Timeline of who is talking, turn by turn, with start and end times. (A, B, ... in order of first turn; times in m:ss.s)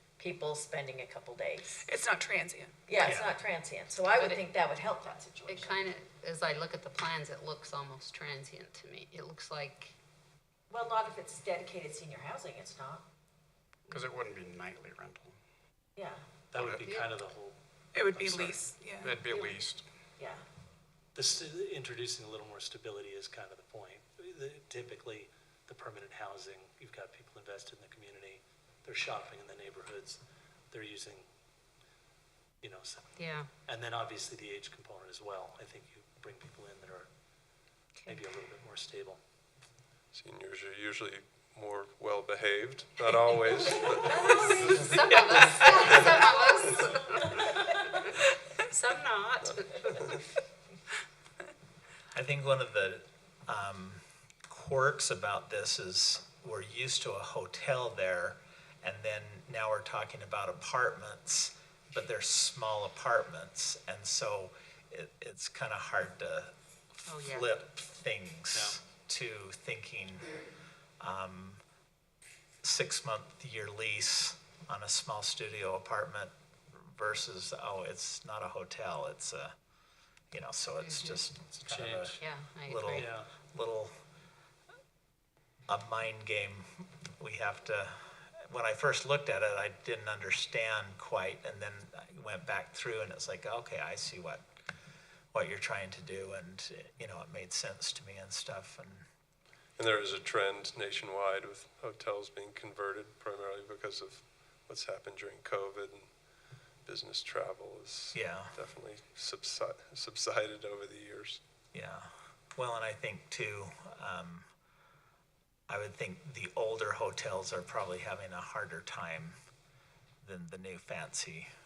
0:00.2-0:01.9 A
0:01.8-0:02.7 B
0:02.8-0:05.9 A
0:04.1-0:04.5 C
0:05.4-0:09.9 C
0:10.7-0:13.0 A
0:13.9-0:15.4 D
0:16.0-0:16.2 A
0:16.5-0:17.6 E
0:16.6-0:16.8 D
0:16.8-0:17.1 C
0:17.9-0:19.1 B
0:18.1-0:19.8 D
0:19.3-0:19.6 A
0:20.2-0:20.4 A
0:21.1-0:31.3 E
0:32.6-0:37.1 E
0:33.2-0:33.5 C
0:38.0-0:38.2 C
0:38.0-0:39.2 E
0:40.1-0:46.3 F
0:44.0-0:50.2 C
0:49.4-0:50.2 F
0:52.1-1:06.5 G
1:07.0-1:10.4 G
1:07.1-1:07.5 C
1:11.0-1:11.6 G
1:12.6-1:19.5 G
1:20.3-1:23.9 G
1:20.8-1:21.2 C
1:21.6-1:22.2 E
1:22.2-1:23.1 C
1:22.9-1:23.3 E
1:25.7-1:34.4 G
1:35.3-1:39.0 G
1:39.8-1:46.2 F
1:46.8-1:51.4 F
1:48.1-1:48.6 G
1:51.7-1:54.5 G
1:55.7-1:59.4 G
2:00.2-2:01.5 G